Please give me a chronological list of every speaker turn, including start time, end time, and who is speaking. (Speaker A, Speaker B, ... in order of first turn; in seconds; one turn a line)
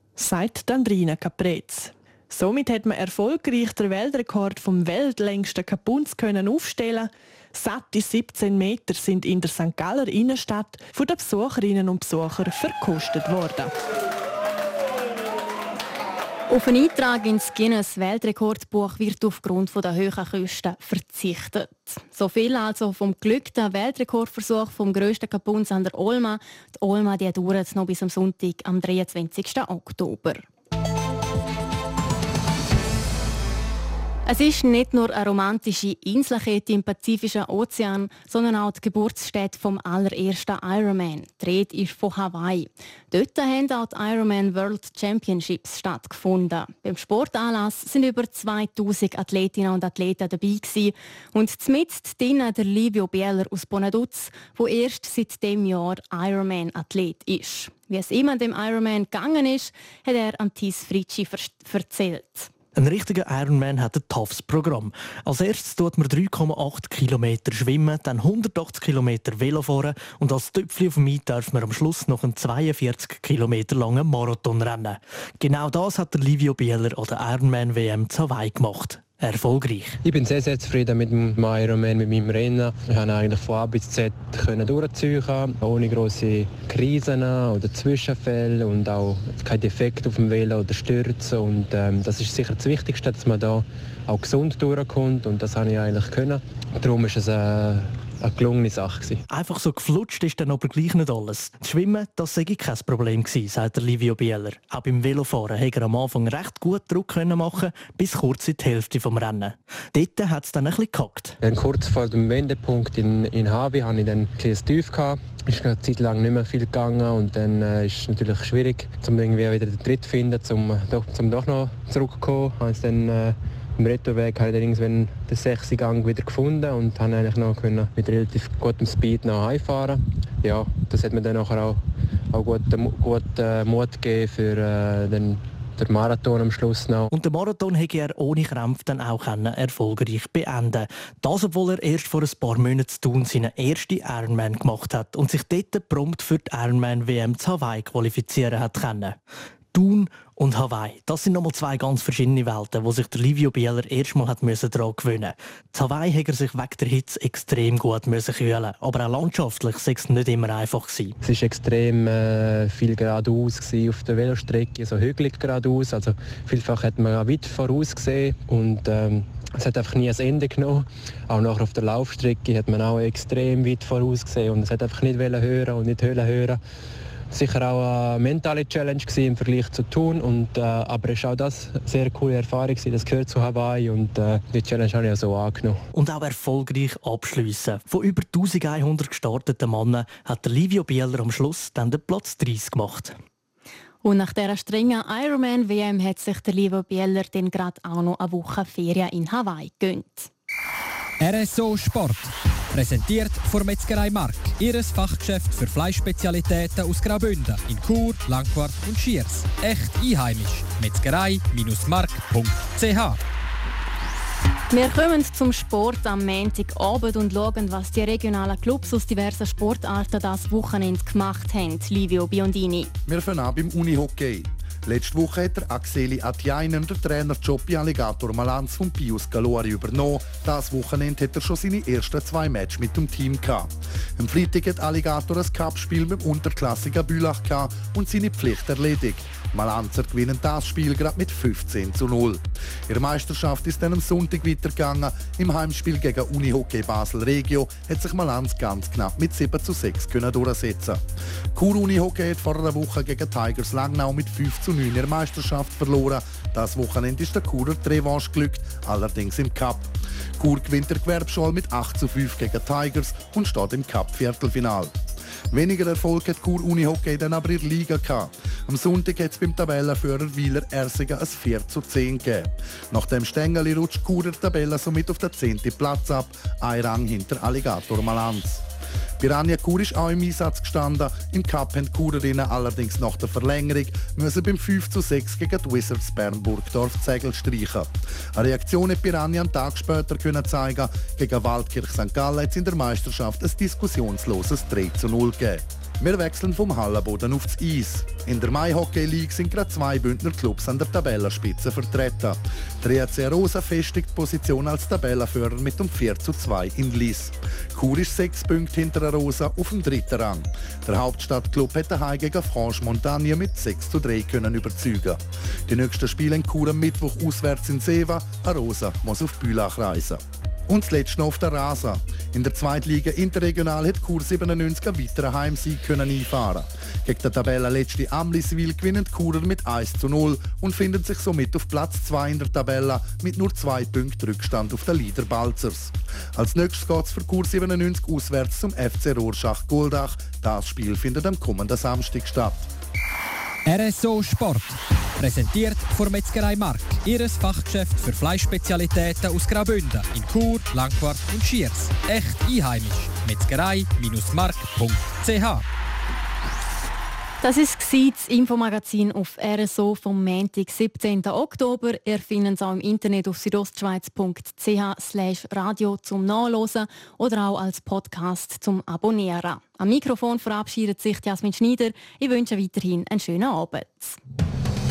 Speaker A: 0.2-13.7
Speaker B: 16.5-30.4
Speaker B: 34.2-62.5
Speaker C: 62.8-80.0
Speaker D: 80.0-99.2
Speaker C: 99.3-111.3
Speaker D: 111.4-137.1
Speaker C: 137.1-149.2
Speaker C: 149.7-161.2
Speaker D: 161.2-176.6
Speaker D: 177.3-185.8
Speaker C: 185.9-193.2
Speaker B: 194.0-200.3
Speaker E: 201.2-213.2
Speaker B: 214.7-222.9
Speaker F: 223.1-251.0
Speaker F: 251.5-264.9
Speaker F: 265.5-278.6
Speaker F: 279.2-342.6
Speaker E: 343.6-355.6
Speaker B: 357.4-374.2